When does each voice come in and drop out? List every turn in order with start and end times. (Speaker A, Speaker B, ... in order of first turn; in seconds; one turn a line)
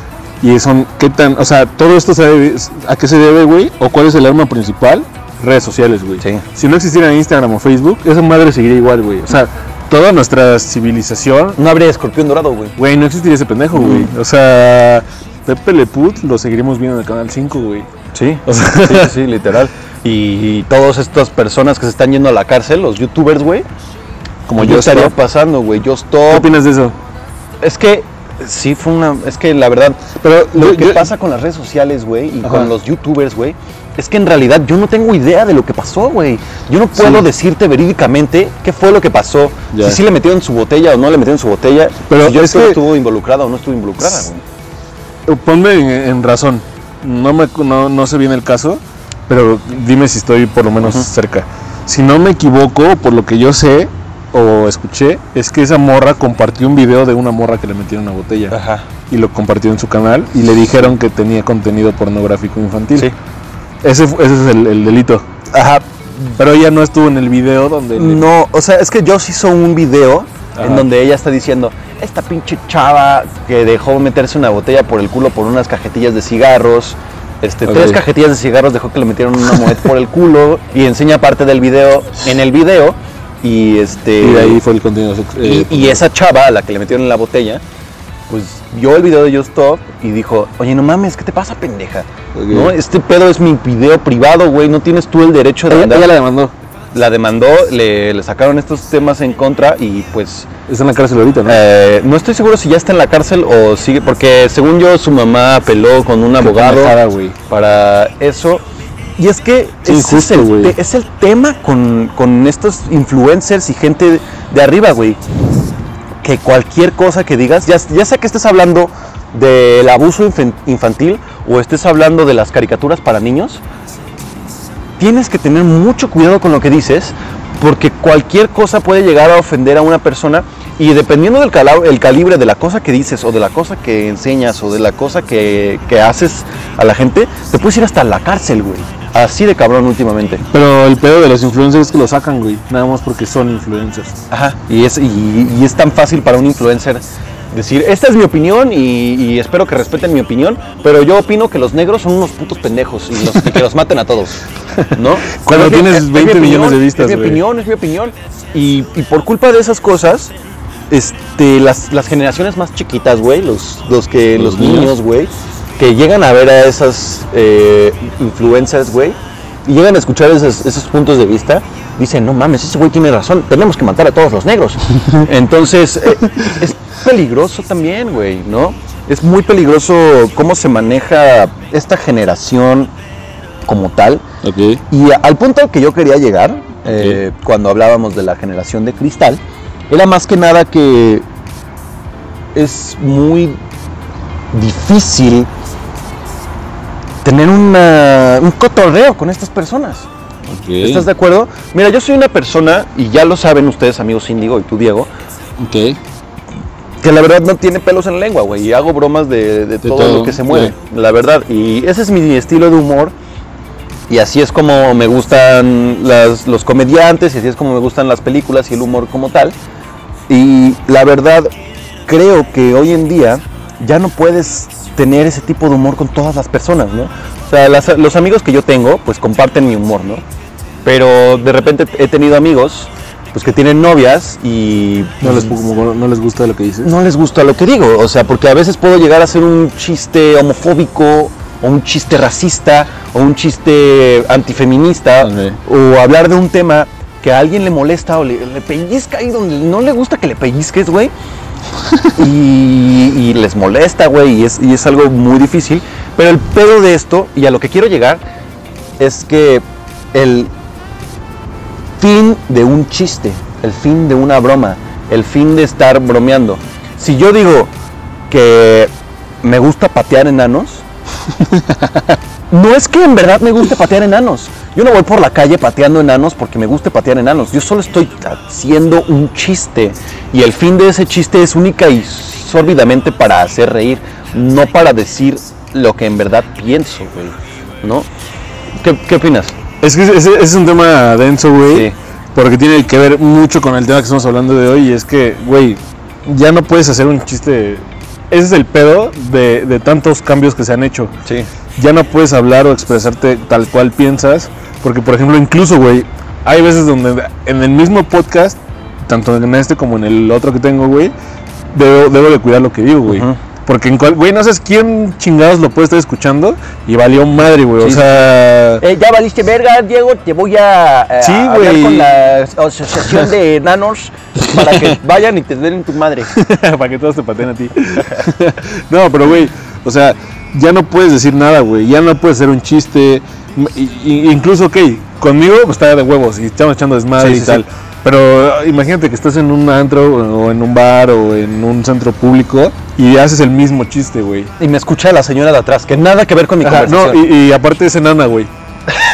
Speaker A: 0.4-11.6
Speaker B: 11.6-12.8
Speaker A: 12.8-17.9
Speaker B: 13.7-14.1
Speaker B: 18.1-23.6
Speaker A: 18.5-19.1
Speaker A: 24.5-25.1
Speaker B: 24.6-26.5
Speaker A: 26.3-27.0
Speaker B: 27.6-44.4
Speaker A: 30.2-31.1
Speaker A: 32.4-32.7
Speaker A: 37.0-37.2
Speaker A: 39.7-40.0
Speaker A: 42.1-42.8
Speaker A: 45.3-58.6
Speaker B: 50.8-51.1
Speaker B: 58.5-58.9
Speaker A: 59.1-63.1
Speaker A: 63.8-65.3
Speaker B: 65.5-65.8
Speaker A: 66.3-68.2
Speaker B: 68.0-84.6
Speaker A: 70.6-70.9
Speaker A: 77.7-78.0
Speaker A: 79.5-79.8
Speaker A: 84.2-86.0
Speaker B: 85.4-87.6
Speaker B: 88.3-96.1
Speaker A: 92.3-92.7
Speaker A: 95.7-96.5
Speaker B: 96.9-100.5
Speaker A: 100.7-101.6
Speaker B: 101.5-107.0
Speaker A: 106.4-107.4
Speaker B: 107.5-108.6
Speaker B: 109.2-115.2
Speaker A: 109.8-110.8
Speaker B: 116.2-123.6
Speaker B: 125.0-140.4
Speaker A: 140.5-144.2
Speaker B: 144.3-154.4
Speaker A: 154.7-157.4
Speaker B: 154.9-160.3
Speaker B: 160.9-182.9
Speaker A: 164.3-164.9
Speaker B: 183.7-184.2
Speaker A: 184.4-184.8
Speaker B: 184.9-191.2
Speaker A: 186.9-187.2
Speaker B: 192.6-193.6
Speaker B: 194.5-195.5
Speaker B: 197.2-200.1
Speaker A: 200.5-201.1
Speaker B: 200.8-205.1
Speaker A: 205.6-206.0
Speaker B: 207.0-213.1
Speaker A: 209.8-210.7
Speaker B: 214.1-219.6
Speaker B: 220.3-221.5
Speaker B: 222.1-230.2
Speaker B: 230.8-235.5
Speaker A: 235.2-236.9
Speaker B: 236.8-251.1
Speaker A: 245.2-245.6
Speaker B: 252.1-258.2
Speaker B: 259.0-260.5
Speaker B: 262.0-267.7
Speaker B: 268.3-268.9
Speaker B: 269.4-270.8
Speaker A: 271.4-272.1
Speaker B: 272.5-288.1
Speaker B: 288.8-289.6
Speaker A: 289.8-301.1
Speaker A: 301.8-311.1
Speaker A: 311.7-318.8
Speaker B: 313.1-313.4
Speaker B: 317.8-326.3
Speaker A: 321.2-322.1
Speaker A: 324.5-325.0
Speaker A: 326.3-344.5
Speaker B: 337.2-337.6
Speaker B: 344.6-347.2
Speaker A: 346.6-348.5